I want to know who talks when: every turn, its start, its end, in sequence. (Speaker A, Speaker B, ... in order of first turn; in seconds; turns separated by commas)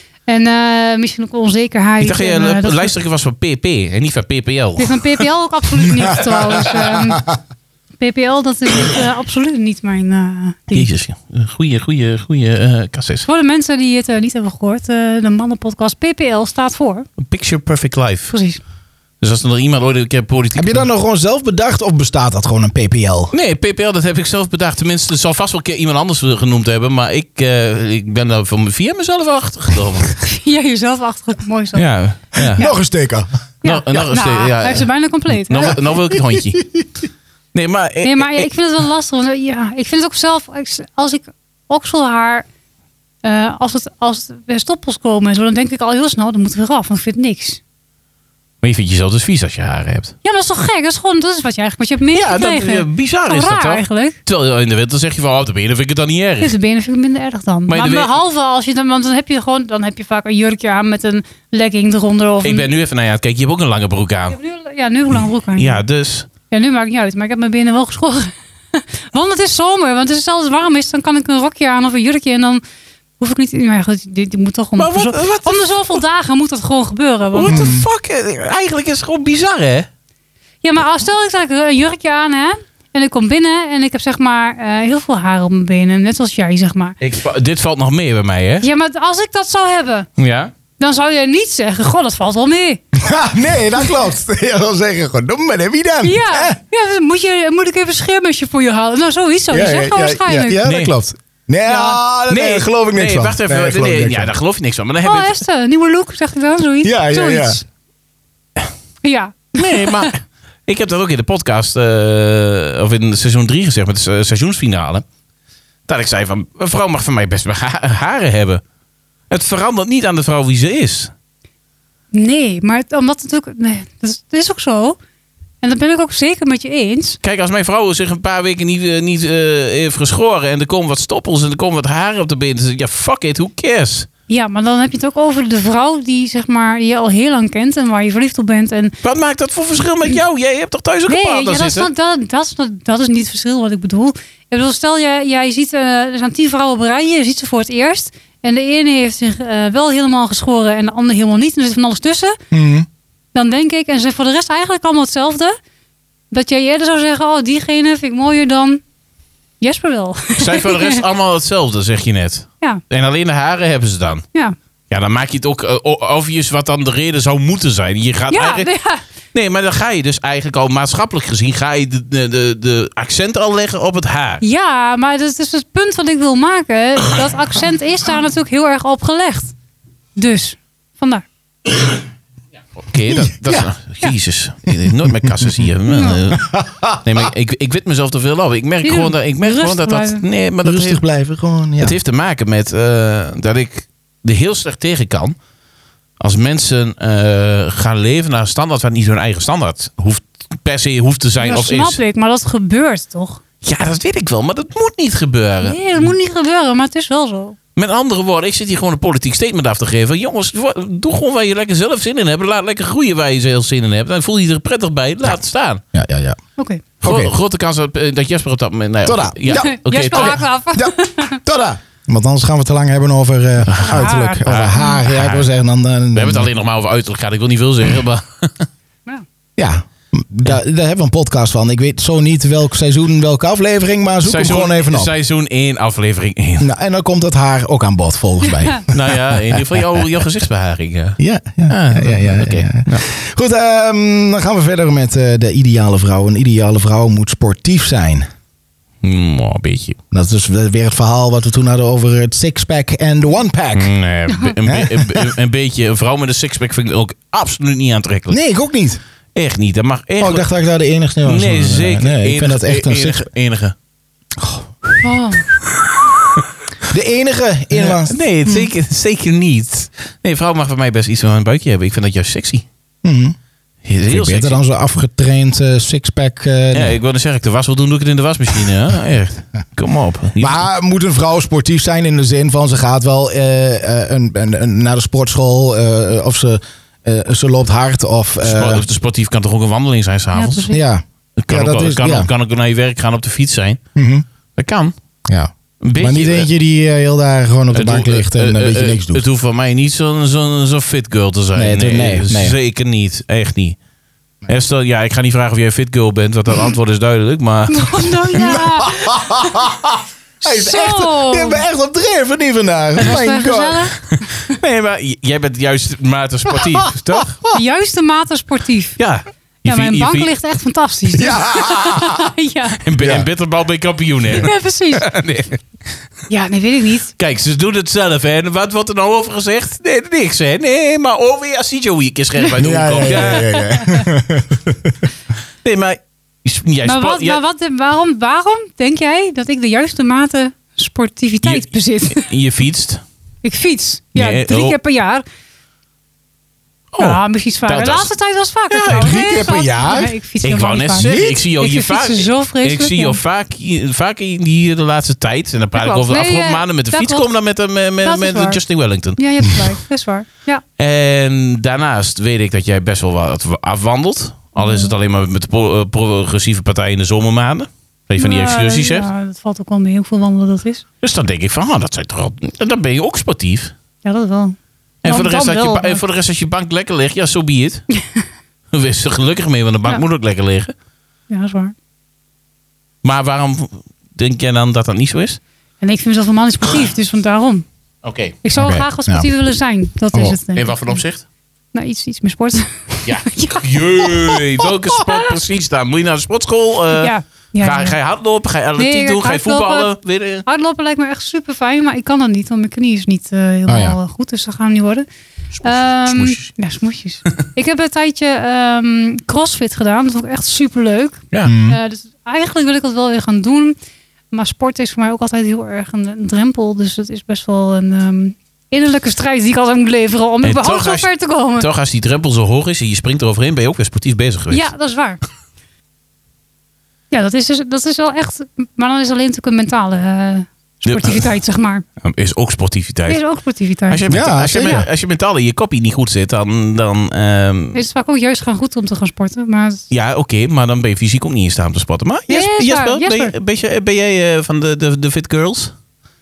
Speaker A: 0.3-2.9, Speaker B: 2.0-5.2, Speaker A: 4.8-7.2, Speaker B: 6.2-6.8, Speaker C: 7.0-7.3, Speaker A: 8.0-10.9, Speaker B: 10.7-13.2, Speaker A: 13.2-17.1, Speaker B: 17.2-18.3, Speaker A: 18.3-18.6, Speaker B: 19.2-20.9, Speaker C: 20.5-23.3, Speaker B: 23.3-30.2, Speaker A: 30.2-31.9, Speaker B: 31.7-32.7, Speaker C: 32.4-33.3, Speaker A: 33.6-35.8, Speaker B: 33.6-36.6, Speaker C: 35.6-36.8, Speaker B: 37.5-38.5, Speaker A: 38.0-42.4, Speaker A: 43.2-47.6, Speaker B: 48.6-50.1, Speaker A: 50.2-54.2, Speaker B: 52.1-56.5, Speaker A: 56.4-62.7, Speaker B: 57.7-58.1, Speaker B: 62.4-64.4, Speaker A: 64.3-65.8, Speaker B: 65.5-66.3, Speaker A: 66.5-72.6, Speaker A: 73.2-77.6, Speaker B: 74.8-76.0, Speaker B: 77.3-79.9, Speaker C: 77.5-77.9, Speaker A: 80.6-87.0, Speaker B: 87.0-88.6, Speaker A: 88.6-90.1, Speaker B: 90.2-90.5, Speaker A: 90.8-92.8, Speaker C: 92.9-96.6, Speaker A: 96.0-100.6, Speaker C: 99.5-104.3, Speaker B: 100.6-100.9, Speaker A: 101.6-102.0, Speaker B: 102.3-105.4, Speaker A: 105.0-107.6, Speaker C: 106.8-107.6, Speaker A: 109.0-110.1, Speaker B: 109.6-115.0, Speaker B: 115.9-118.6, Speaker B: 119.3-121.1, Speaker A: 122.1-125.0, Speaker A: 125.6-127.2, Speaker B: 127.2-134.1, Speaker A: 134.3-139.0, Speaker B: 139.0-141.9, Speaker A: 141.1-152.4, Speaker C: 152.5-152.9, Speaker A: 153.3-155.6, Speaker A: 156.3-158.8, Speaker A: 159.6-161.0, Speaker B: 160.4-164.2, Speaker B: 164.9-168.7, Speaker A: 168.3-169.0, Speaker B: 169.3-174.4, Speaker A: 174.4-179.5, Speaker A: 180.2-181.2, Speaker B: 182.8-191.0, Speaker C: 183.2-183.7, Speaker C: 184.9-185.6, Speaker A: 185.9-186.2, Speaker C: 186.3-187.0, Speaker A: 188.8-190.2, Speaker C: 190.6-192.0, Speaker B: 191.8-195.3, Speaker B: 196.2-202.0, Speaker A: 201.4-203.4, Speaker B: 203.6-205.8, Speaker A: 205.6-207.6, Speaker B: 207.8-215.8, Speaker C: 215.9-216.4, Speaker A: 216.6-216.8, Speaker C: 217.0-217.3, Speaker B: 217.0-220.4, Speaker C: 219.0-226.5, Speaker A: 219.4-221.4, Speaker B: 223.7-225.5, Speaker A: 223.8-225.0, Speaker B: 226.1-228.7, Speaker C: 229.6-235.1, Speaker B: 234.2-236.7, Speaker C: 236.6-240.1, Speaker B: 238.9-243.0, Speaker C: 241.2-248.2, Speaker B: 249.0-250.0, Speaker C: 250.1-253.9, Speaker B: 253.7-258.4, Speaker A: 254.3-254.5, Speaker C: 254.7-255.3, Speaker C: 258.3-259.0, Speaker B: 259.3-260.5, Speaker C: 260.2-263.3, Speaker B: 261.2-263.7, Speaker C: 264.4-264.7, Speaker A: 265.0-265.4, Speaker C: 266.9-268.7, Speaker B: 267.7-272.6, Speaker C: 273.0-273.4, Speaker B: 273.8-274.6, Speaker C: 274.1-277.0, Speaker B: 276.7-280.6, Speaker C: 280.4-288.8, Speaker B: 288.4-290.7, Speaker A: 290.3-290.8, Speaker C: 290.7-292.3, Speaker B: 291.4-293.8, Speaker C: 293.9-294.2, Speaker B: 294.6-294.9, Speaker C: 295.3-299.2, Speaker B: 295.8-296.5, Speaker B: 297.7-303.8, Speaker C: 301.5-302.6, Speaker B: 304.5-308.4, Speaker A: 307.7-309.6, Speaker C: 308.4-313.9, Speaker A: 310.4-311.6, Speaker A: 313.0-314.5, Speaker B: 314.4-317.4, Speaker C: 316.5-317.5, Speaker A: 317.5-319.0, Speaker B: 319.0-320.3, Speaker A: 319.6-322.8, Speaker C: 321.1-322.3, Speaker B: 322.8-325.6, Speaker C: 323.0-323.3, Speaker A: 324.3-325.1, Speaker A: 326.3-327.1, Speaker B: 327.2-333.5, Speaker C: 332.5-335.1, Speaker A: 333.0-334.1, Speaker B: 335.6-337.4, Speaker A: 336.8-342.3, Speaker B: 341.4-343.0, Speaker A: 343.4-345.2, Speaker B: 344.1-344.8, Speaker B: 346.9-348.1, Speaker A: 347.0-353.2, Speaker B: 348.7-349.2, Speaker C: 348.9-350.1, Speaker B: 350.4-359.2, Speaker C: 351.0-351.4, Speaker A: 355.8-357.3, Speaker A: 358.0-358.6, Speaker A: 359.1-360.6, Speaker B: 360.8-369.1, Speaker A: 364.6-364.9, Speaker A: 368.2-370.8, Speaker B: 371.0-373.7, Speaker A: 374.0-376.0, Speaker B: 375.0-377.9, Speaker A: 378.0-378.2, Speaker B: 378.7-380.7, Speaker A: 381.3-381.7, Speaker B: 383.0-385.4, Speaker A: 385.8-387.6, Speaker B: 388.0-388.4, Speaker A: 388.4-391.0, Speaker C: 388.6-389.3, Speaker B: 390.5-391.2, Speaker A: 391.7-394.4, Speaker B: 393.0-400.4, Speaker A: 396.9-397.9, Speaker A: 398.8-399.9, Speaker A: 400.4-405.1, Speaker C: 403.7-404.0, Speaker B: 405.6-406.5, Speaker A: 405.6-413.7, Speaker C: 411.4-411.8, Speaker A: 414.3-421.7, Speaker B: 420.4-424.7, Speaker A: 424.5-425.2, Speaker A: 427.1-431.8, Speaker B: 430.9-431.2, Speaker B: 432.0-433.2, Speaker A: 433.1-434.0, Speaker B: 433.9-437.8, Speaker C: 434.1-434.9, Speaker A: 437.7-439.9, Speaker B: 439.9-445.7, Speaker A: 442.3-443.3